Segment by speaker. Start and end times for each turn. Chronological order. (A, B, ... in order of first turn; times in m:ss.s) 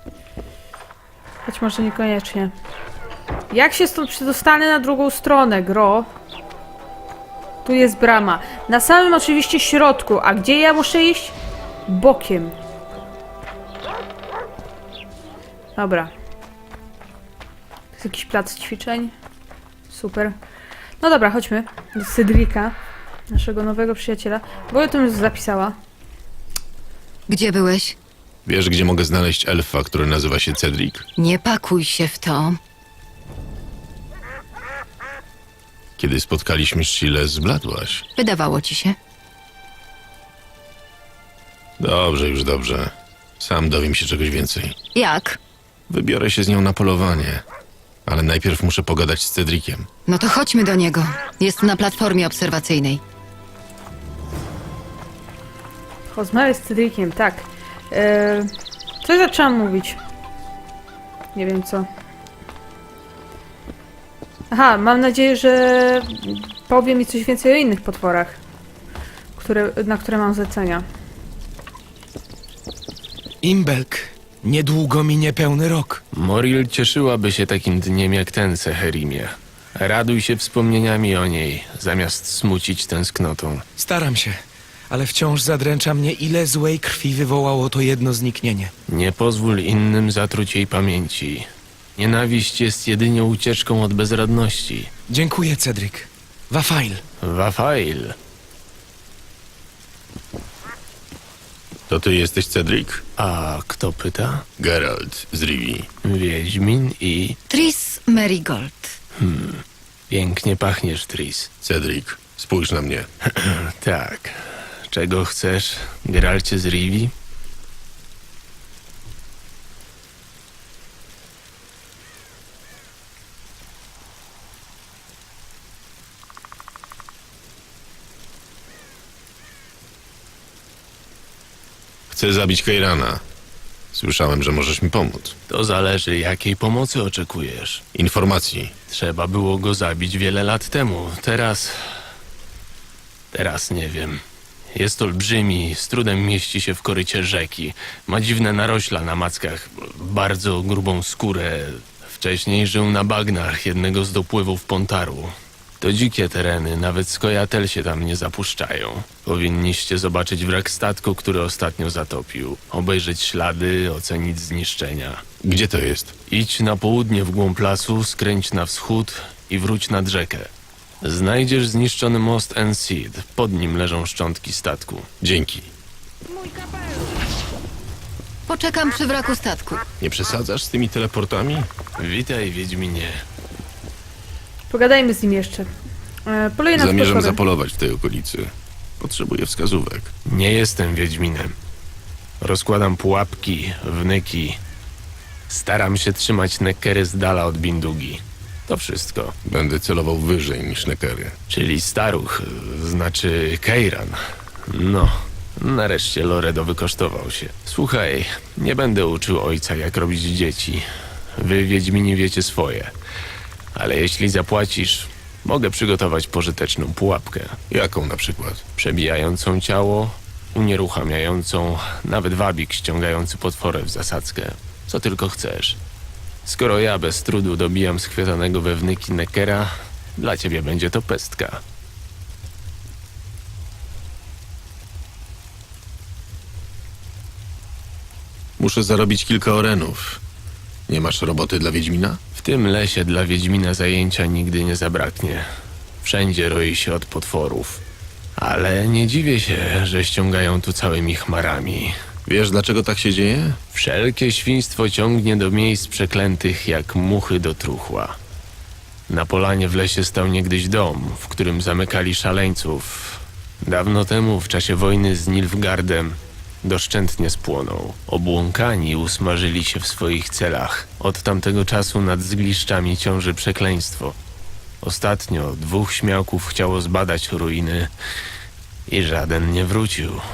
0:01.4-0:02.5 A
0:03.5-0:06.1 A
0:07.6-0:11.3 A
0:11.9-0:12.5 A
0:15.8-0:16.1 A
0:17.9-0:19.1 A
0:19.9-0:20.4 A
0:21.0-0:22.7 A
0:23.3-0:25.8 A
0:27.3-0:28.0 B
0:28.4-0:31.0 C
0:31.2-0:32.6 B
0:36.0-0:38.0 C
0:38.2-0:39.0 B
0:41.8-0:44.8 C
0:44.9-0:45.4 B
0:45.9-0:47.4 C
0:48.0-0:49.9 C
0:50.1-0:53.0 B
0:56.1-0:58.5 A
0:59.0-1:00.0 A
1:01.3-1:01.8 A
1:04.5-1:08.4 A
1:09.3-1:10.8 A
1:13.5-1:16.0 D
1:16.1-1:23.6 E
1:23.8-1:24.2 D
1:25.0-1:28.6 D
1:28.9-1:31.4 E
1:32.0-1:34.9 E
1:35.2-1:36.0 D
1:36.6-1:36.9 D
1:37.2-1:38.1 E
1:41.9-1:43.0 C
1:43.2-1:44.4 E
1:44.6-1:45.9 C
1:46.0-1:47.4 E
1:47.5-1:48.9 B
1:49.2-1:51.5 E
1:51.6-1:53.1 C
1:53.4-1:57.1 E
2:12.1-2:13.2 C
2:13.9-2:15.3 C
2:15.5-2:17.8 E
2:17.9-2:18.7 C
2:18.9-2:21.7 E
2:23.3-2:24.2 E
2:24.7-2:45.2 E
2:45.4-2:46.1 C
2:46.3-2:50.5 E
2:51.0-2:55.1 E
2:55.2-2:55.7 C
2:58.5-2:59.8 B
3:00.0-3:01.7 C
3:02.0-3:03.2 E
3:04.7-3:05.7 A
3:06.3-3:07.4 A
3:06.7-3:10.1 C
3:10.3-3:11.5 E
3:12.4-3:14.6 E
3:15.5-3:19.3 E
3:19.4-3:21.3 C
3:21.5-3:24.2 E
3:24.7-3:30.8 E
3:31.4-3:32.9 E
3:33.7-3:37.6 E
3:37.7-3:38.6 C
3:38.8-3:45.8 E
3:46.4-3:51.6 E
3:58.6-4:00.2 C
4:00.9-4:02.2 C
4:02.4-4:05.4 E
4:06.0-4:07.8 E
4:08.4-4:11.9 E
4:12.2-4:13.6 C
4:13.7-4:18.2 E
4:19.1-4:34.1 E
4:34.8-4:37.9 E
4:38.9-4:40.2 E